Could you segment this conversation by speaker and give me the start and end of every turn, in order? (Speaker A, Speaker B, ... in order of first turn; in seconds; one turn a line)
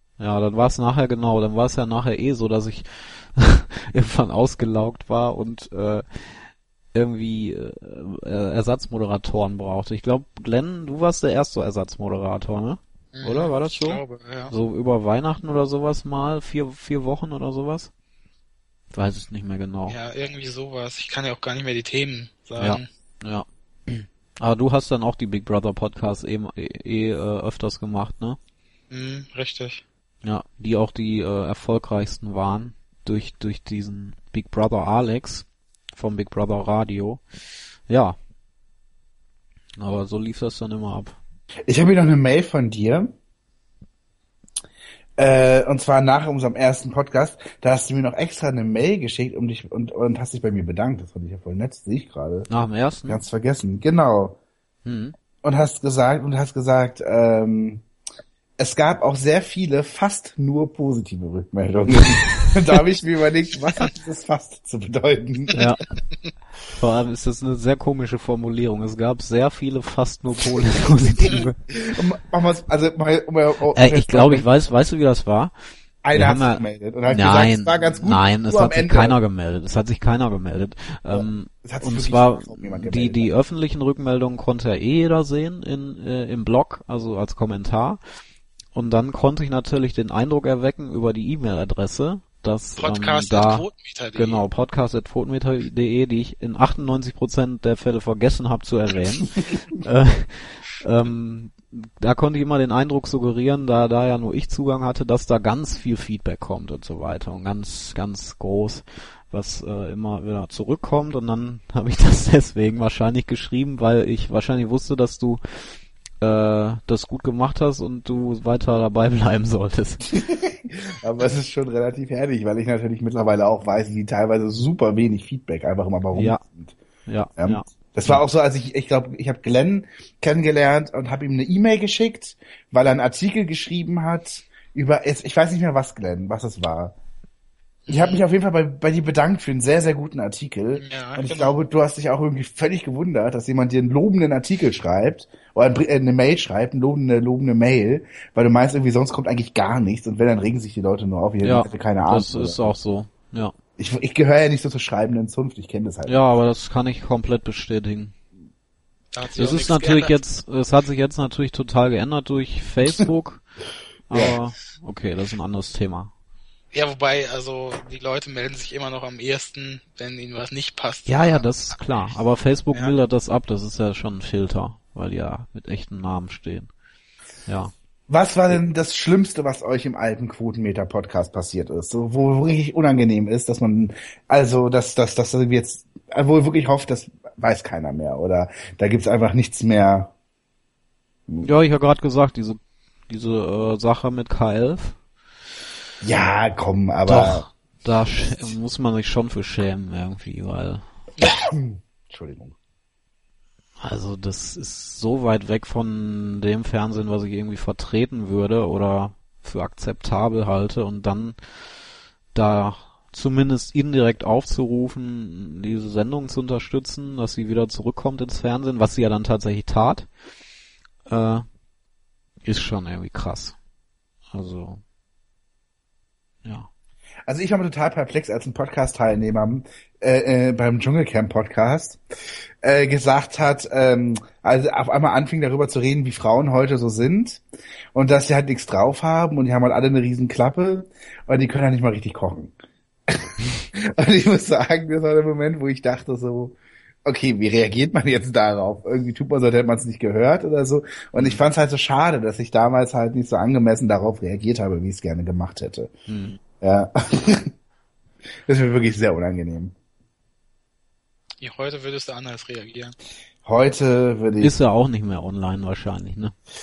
Speaker A: 0.2-17.9
Speaker B: 13.1-14.5
Speaker A: 18.9-20.0
Speaker B: 19.9-22.9
Speaker A: 22.6-28.4
Speaker B: 28.9-29.8
Speaker A: 30.2-37.2
Speaker A: 37.9-38.2
Speaker A: 39.8-41.2
Speaker C: 41.7-43.1
Speaker C: 45.2-52.5
Speaker A: 52.5-53.2
Speaker C: 53.1-54.4
Speaker A: 54.9-55.1
Speaker C: 55.4-57.8
Speaker C: 58.6-65.6
Speaker A: 62.0-62.5
Speaker A: 65.5-65.8
Speaker A: 66.8-71.6
Speaker C: 71.3-74.5
Speaker A: 73.7-75.5
Speaker C: 76.0-79.2
Speaker A: 76.1-88.0
Speaker C: 81.1-83.3
Speaker A: 88.7-115.4
Speaker B: 92.8-94.5
Speaker A: 116.2-120.1
Speaker C: 120.0-126.8
Speaker A: 126.1-126.4
Speaker A: 127.1-128.2
Speaker C: 127.4-136.9
Speaker B: 137.9-138.2
Speaker C: 137.9-152.7
Speaker B: 140.8-141.6
Speaker A: 151.4-153.5
Speaker C: 153.8-156.2
Speaker A: 156.1-158.2
Speaker B: 159.1-160.2
Speaker A: 159.4-163.4
Speaker A: 164.1-166.1
Speaker C: 164.1-164.4
Speaker B: 166.7-171.5
Speaker A: 171.1-176.7
Speaker A: 177.5-177.7
Speaker C: 178.1-190.1
Speaker A: 191.4-195.0
Speaker C: 196.0-197.5
Speaker A: 197.1-200.8
Speaker C: 201.2-202.6
Speaker A: 203.8-211.4
Speaker A: 212.3-220.1
Speaker A: 221.1-221.4
Speaker A: 222.4-223.6
Speaker A: 224.3-224.8
Speaker C: 227.3-232.0
Speaker C: 232.6-237.4
Speaker C: 237.9-242.5
Speaker C: 243.1-255.9
Speaker A: 251.2-251.4
Speaker A: 256.1-256.4
Speaker C: 256.6-257.5
Speaker C: 258.5-259.7
Speaker B: 261.4-263.0
Speaker C: 263.4-264.5
Speaker A: 264.4-266.3